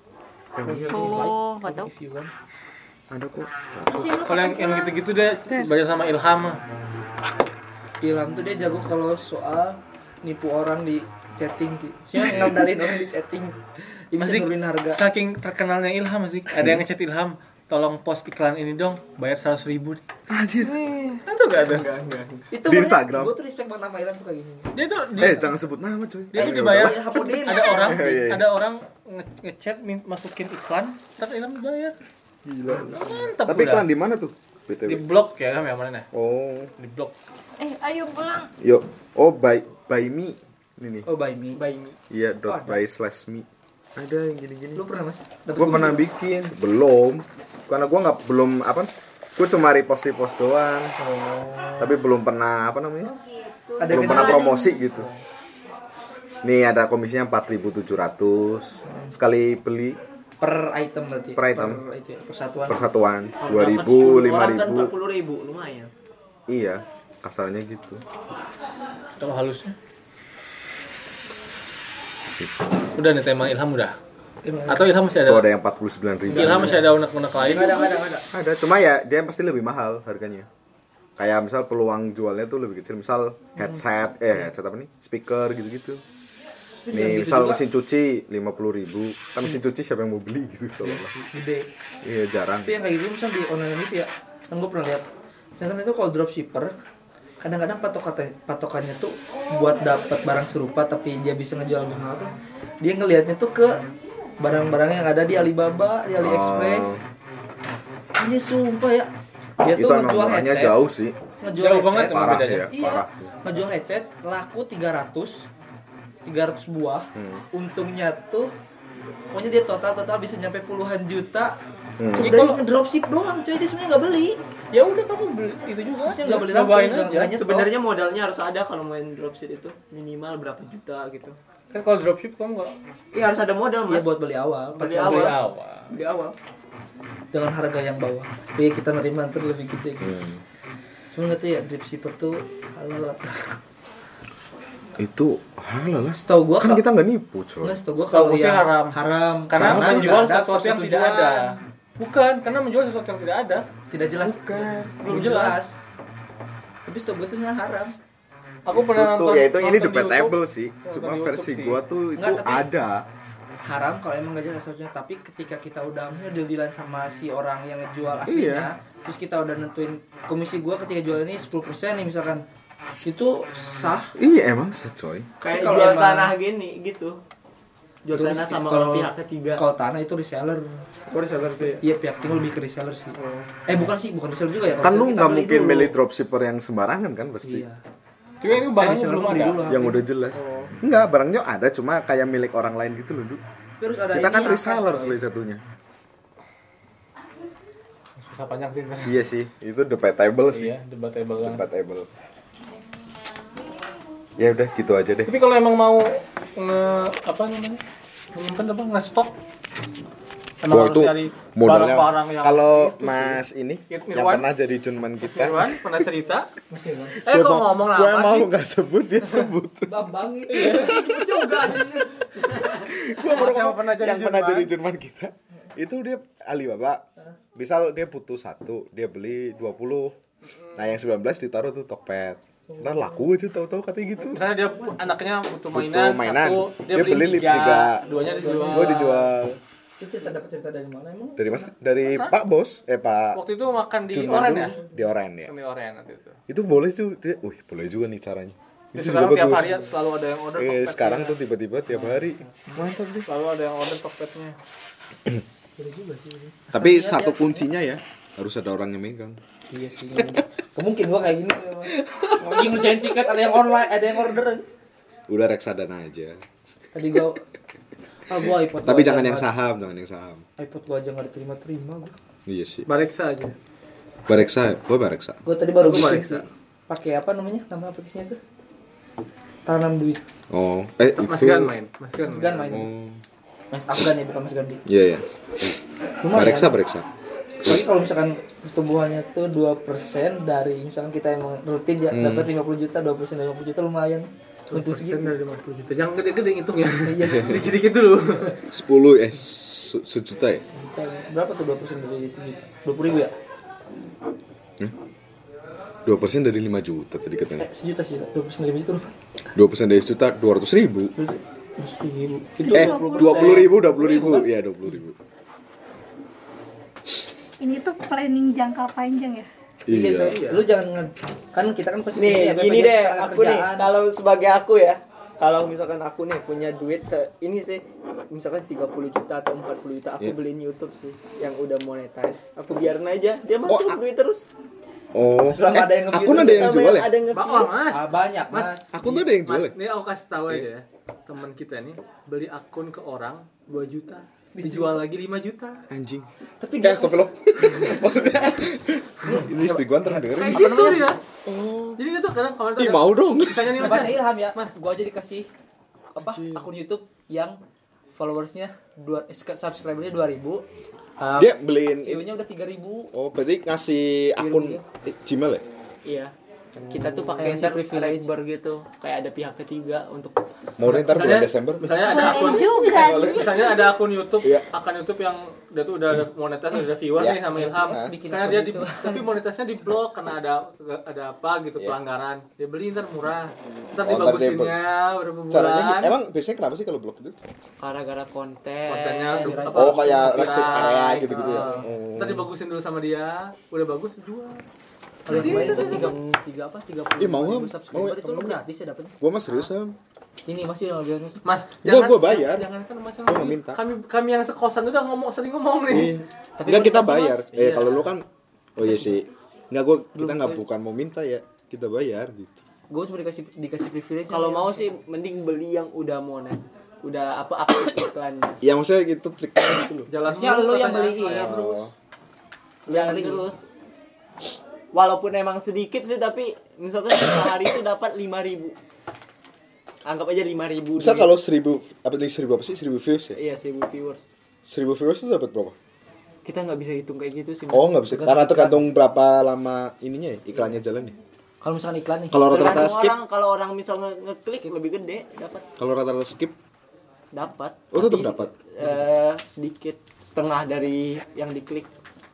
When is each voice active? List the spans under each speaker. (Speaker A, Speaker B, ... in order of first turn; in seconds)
Speaker A: 0.5-1.2, 3.1-4.2, 12.2-12.7, 16.6-16.8, 20.3-20.8, 22.6-23.4, 25.1-28.4, 32.4-35.0, 36.1-36.7, 38.6-41.1, 42.1-44.8, 45.5-50.9, 51.8-53.1, 53.9-55.1, 56.4-60.0, 61.4-61.8, 62.7-64.9, 66.5-68.0, 75.2-76.9, 78.3-80.5, 81.2-86.0, 86.9-91.1, 92.0-92.8, 106.2-107.0, 109.7-111.1, 112.1-113.5, 117.1-117.4, 122.0-122.4, 140.0-140.4, 145.0-147.8, 149.6-150.1, 154.2-155.0, 158.7-163.1, 168.2-168.7, 174.2-175.3, 184.8-187.7, 189.7-193.4, 194.1-195.6, 199.0-200.7, 201.4-202.1, 204.4-205.3, 210.7-215.8, 217.3-220.1, 222.6-227.0, 227.5-230.2, 230.7-234.5, 235.7-238.0, 238.6-239.6, 241.4-243.4, 244.1-245.5, 246.5-249.8, 250.6-253.3, 256.7-259.4, 262.0-263.4, 265.3-266.4, 268.7-270.4, 272.5-272.9, 274.3-275.4, 280.5-281.7, 282.7-283.2, 284.9-285.8, 286.3-287.1, 292.1-292.5, 297.3-297.6, 298.7-300.6, 306.0-307.7, 309.5-311.1, 312.7-315.2, 319.9-320.4, 333.6-334.0, 335.1-337.1, 338.9-339.7, 345.9-346.3, 346.8-352.0, 352.8-354.1, 356.2-356.7, 361.4-362.3, 363.1-365.6, 370.8-373.8, 377.2-378.1, 383.9-384.8, 385.5-387.4, 389.7-392.5, 395.3-396.4, 397.2-398.6, 399.2-399.9, 401.8-402.7, 403.3-403.8, 405.9-412.6, 418.6-420.1, 421.2-421.9, 431.0-433.4, 434.7-435.7, 437.7-441.2, 442.3-443.2, 445.8-446.6, 447.9-448.9
Speaker B: 0.6-2.3, 8.0-13.6, 14.1-15.0, 22.5-25.4, 26.6-28.0, 32.7-33.0, 41.0-41.6, 42.5-42.8, 44.8-46.0, 51.0-52.0, 53.8-55.2, 58.9-59.1, 60.4-62.8, 74.4-74.8, 76.3-78.2, 86.8-87.6, 90.8-91.7, 92.7-95.0, 95.6-96.7, 97.4-103.8, 104.4-107.0, 108.2-109.1, 109.6-110.8, 111.4-115.5, 116.2-118.5, 119.3-121.6, 122.1-124.4, 126.0-127.7, 133.9-135.3, 137.3-140.2, 141.1-143.5, 146.2-146.8, 147.6-151.6, 153.9-155.8, 156.8-157.9, 162.2-162.7, 163.6-172.4, 173.0-174.2, 175.5-176.3, 178.1-180.8, 181.7-183.2, 183.7-185.9, 187.4-187.8, 188.7-190.1, 193.8-195.2, 216.7-217.2, 219.9-222.8, 238.0-239.3, 240.0-241.7, 249.6-249.9, 255.8-257.6, 259.7-264.6, 266.9-267.4, 268.3-269.5, 270.6-272.1, 275.4-278.4, 279.6-280.2, 282.2-282.9, 283.7-284.8, 286.2-286.7, 287.6-295.3, 297.0-297.7, 300.7-303.3, 307.6-309.1, 311.2-314.5, 319.9-323.9, 335.4-336.7, 337.9-338.9, 344.5-345.0, 346.6-347.2, 347.9-348.5, 349.2-351.1, 353.8-355.5, 356.1-357.6, 358.1-360.6, 361.2-363.1, 364.4-364.8, 366.9-368.3, 377.5-379.4, 389.2-390.8, 391.3-391.9, 395.2-399.1, 400.5-401.4, 406.6-408.1, 408.9-409.1, 410.1-410.6, 412.9-414.9, 420.2-421.5, 422.9-423.5, 438.3-438.8, 441.6-442.4
Speaker C: 0.9-1.9, 20.6-21.2, 37.6-38.5, 53.0-54.8
Speaker D: 3.9-5.0, 312.6-313.5, 317.6-319.5, 371.9-373.6
Speaker E: 4.2-6.6, 14.1-20.0, 21.2-21.9, 24.7-25.5, 26.3-31.9, 32.9-33.9, 34.8-36.0, 36.8-37.1, 69.2-69.7, 73.0-73.9, 74.7-75.5, 76.3-77.8, 111.6-112.7, 122.2-122.6, 124.7-127.3, 131.7-132.7, 135.0-135.9, 148.1-149.0, 149.5-153.7, 155.0-155.6, 158.7-161.8, 188.4-189.6, 198.2-199.2, 200.5-201.6, 205.2-207.8, 208.3-209.3, 210.6-214.5, 215.2-216.5, 217.2-218.5, 220.5-221.5, 223.1-224.7, 230.5-230.8, 234.2-239.2, 242.1-242.3, 243.3-244.8, 245.5-246.4, 248.9-251.4, 253.2-254.6, 272.9-273.5, 275.8-276.4, 281.1-282.7, 294.7-298.6, 320.2-320.6, 337.3-345.8, 350.5-351.2, 352.0-354.7, 370.9-386.1, 388.9-394.6, 395.3-396.1, 401.4-406.2, 420.1-421.9
Speaker F: 21.6-22.5, 41.5-42.0, 63.4-65.9, 127.3-131.4, 133.1-134.1, 134.8-136.3, 175.4-177.2, 178.0-179.6, 181.1-181.8, 183.2-183.5, 322.1-334.5, 336.2-337.7, 366.0-366.3, 366.9-370.4, 387.8-389.6, 414.3-418.6, 422.9-423.6, 424.9-428.7, 430.0-431.3, 433.3-434.2, 436.4-438.8, 442.5-445.6, 447.3-451.9